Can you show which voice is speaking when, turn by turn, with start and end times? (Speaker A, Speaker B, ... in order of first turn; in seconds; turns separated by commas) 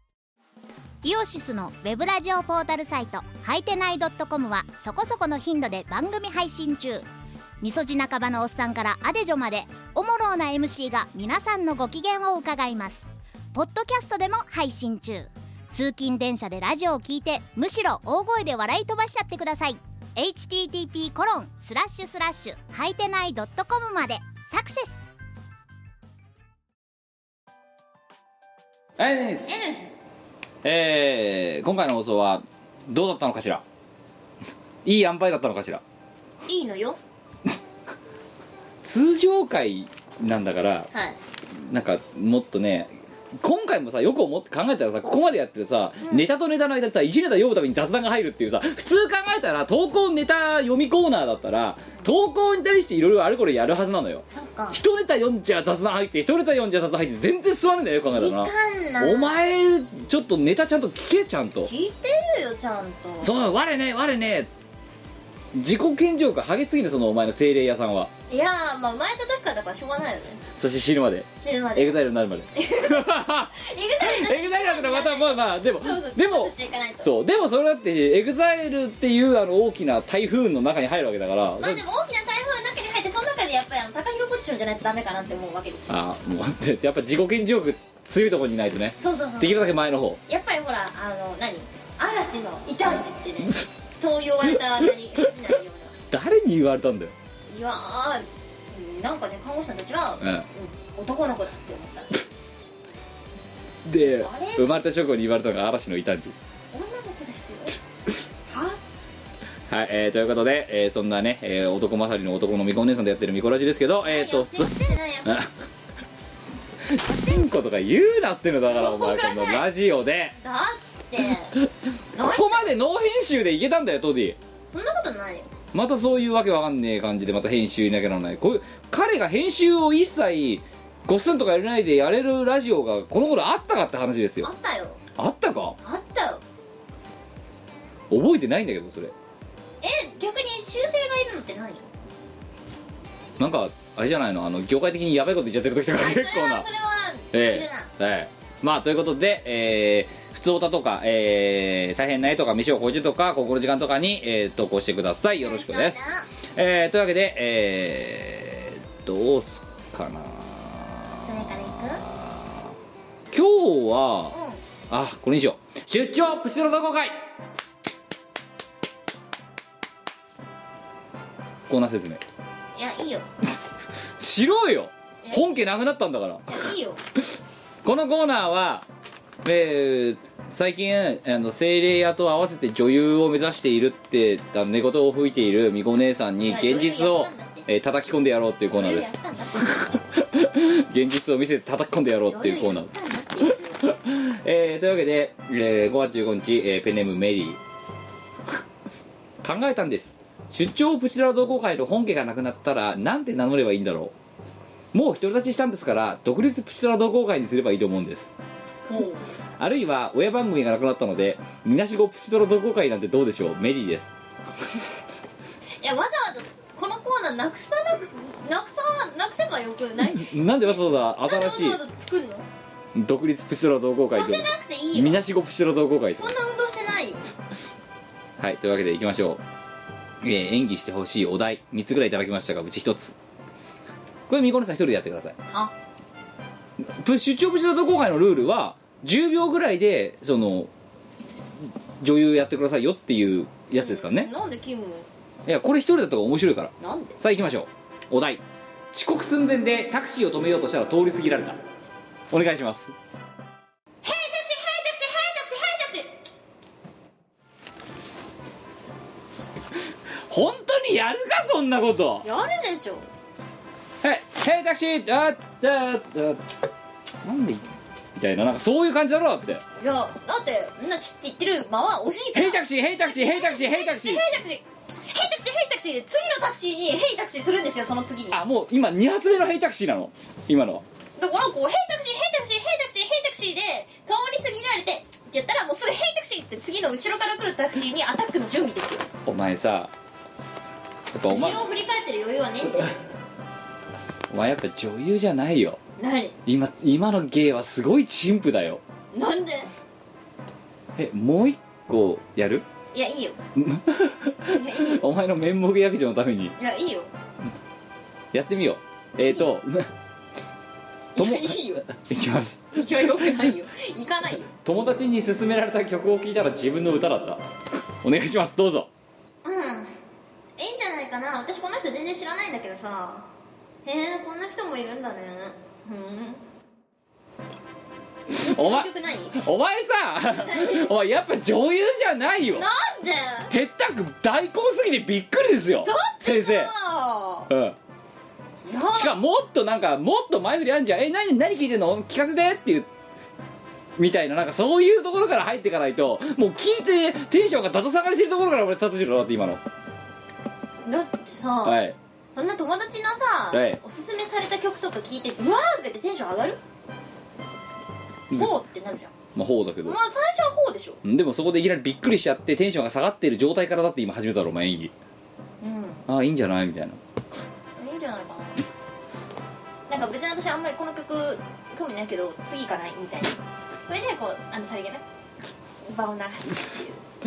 Speaker A: 1.0-7.1, Speaker A: 7.6-25.0, Speaker B: 29.0-29.5, Speaker C: 29.5-29.9, Speaker B: 30.6-33.6, Speaker B: 34.9-35.8, Speaker C: 36.5-37.0, Speaker B: 38.8-40.9, Speaker C: 40.9-41.2, Speaker B: 41.6-61.7, Speaker C: 54.3-54.8, Speaker C: 58.1-59.4, Speaker C: 61.6-63.3, Speaker B: 63.2-64.5, Speaker B: 65.5-68.1, Speaker C: 68.3-70.4, Speaker B: 70.6-81.8, Speaker C: 71.4-72.0, Speaker C: 72.5-77.1, Speaker C: 81.6-85.9, Speaker B: 85.9-90.2, Speaker C: 89.0-89.7, Speaker C: 90.3-95.9, Speaker B: 96.1-97.1, Speaker C: 97.5-102.3, Speaker B: 100.2-100.5, Speaker B: 103.9-106.4, Speaker C: 104.2-104.7, Speaker C: 106.7-107.8, Speaker C: 108.5-108.8, Speaker B: 109.7-115.5, Speaker C: 114.1-115.4, Speaker B: 116.9-120.4, Speaker C: 117.0-117.4, Speaker C: 118.5-119.7, Speaker C: 120.4-121.5, Speaker C: 122.2-122.7, Speaker B: 122.2-124.4, Speaker C: 124.7-125.5, Speaker B: 125.7-134.5, Speaker C: 134.4-135.0, Speaker B: 135.2-135.8, Speaker C: 135.8-136.4, Speaker B: 138.1-139.1, Speaker C: 139.8-141.9, Speaker B: 143.4-146.7, Speaker C: 145.9-147.9, Speaker B: 147.3-156.0, Speaker C: 155.4-156.3, Speaker B: 156.6-161.1, Speaker C: 161.3-162.0, Speaker B: 162.0-162.7, Speaker B: 163.3-164.3, Speaker C: 164.3-164.6, Speaker B: 164.9-167.2, Speaker B: 171.7-172.2, Speaker C: 172.8-173.3, Speaker B: 174.2-176.6, Speaker C: 175.2-175.7, Speaker C: 176.5-177.0, Speaker B: 177.8-178.9, Speaker B: 179.4-192.9, Speaker C: 186.4-187.7, Speaker C: 188.7-190.0, Speaker C: 192.3-193.9, Speaker B: 193.9-197.6, Speaker B: 199.4-204.1, Speaker B: 204.9-208.3, Speaker C: 208.9-209.3, Speaker B: 209.6-214.1, Speaker C: 215.8-222.5, Speaker B: 220.2-221.8, Speaker B: 222.9-226.3, Speaker C: 224.1-225.2, Speaker C: 226.2-227.2, Speaker B: 228.4-229.4, Speaker B: 230.2-233.2, Speaker B: 234.3-235.4, Speaker B: 237.0-240.7, Speaker B: 242.0-244.3, Speaker C: 243.7-245.1, Speaker B: 245.5-251.6, Speaker C: 246.8-247.2, Speaker B: 252.3-252.9, Speaker C: 254.0-256.1, Speaker B: 260.3-262.3, Speaker C: 262.2-263.0, Speaker B: 264.0-266.5, Speaker B: 267.2-269.6, Speaker C: 269.8-278.4, Speaker B: 272.3-274.2, Speaker B: 278.3-280.8, Speaker C: 281.2-289.1, Speaker B: 289.3-289.9, Speaker B: 291.1-291.6, Speaker C: 291.3-292.9, Speaker B: 294.3-295.8, Speaker C: 296.0-296.4, Speaker B: 296.5-298.8, Speaker C: 299.1-299.7, Speaker B: 301.0-302.6, Speaker C: 302.9-303.4, Speaker B: 303.6-306.6, Speaker C: 304.5-305.0, Speaker C: 306.6-307.1, Speaker B: 308.3-309.9, Speaker C: 309.2-309.5, Speaker C: 311.2-311.9, Speaker B: 311.2-313.3, Speaker C: 312.8-314.5, Speaker B: 314.6-317.4, Speaker B: 318.0-318.9, Speaker C: 319.4-319.9, Speaker C: 320.6-323.3, Speaker C: 323.9-326.4, Speaker C: 328.3-329.4, Speaker B: 328.5-332.7, Speaker C: 330.3-330.9, Speaker C: 332.6-333.5, Speaker B: 333.5-336.7, Speaker C: 335.8-337.5, Speaker B: 337.5-337.8, Speaker C: 338.6-339.2, Speaker B: 338.9-342.9, Speaker B: 344.0-349.6, Speaker C: 350.8-351.8, Speaker B: 351.6-352.0, Speaker C: 352.4-356.6, Speaker B: 353.5-353.8, Speaker C: 358.3-359.1, Speaker B: 359.4-360.0, Speaker C: 359.8-361.0, Speaker B: 361.0-364.9, Speaker C: 365.6-366.0, Speaker B: 366.1-367.0, Speaker C: 367.8-368.6, Speaker C: 369.9-375.0, Speaker C: 375.8-377.0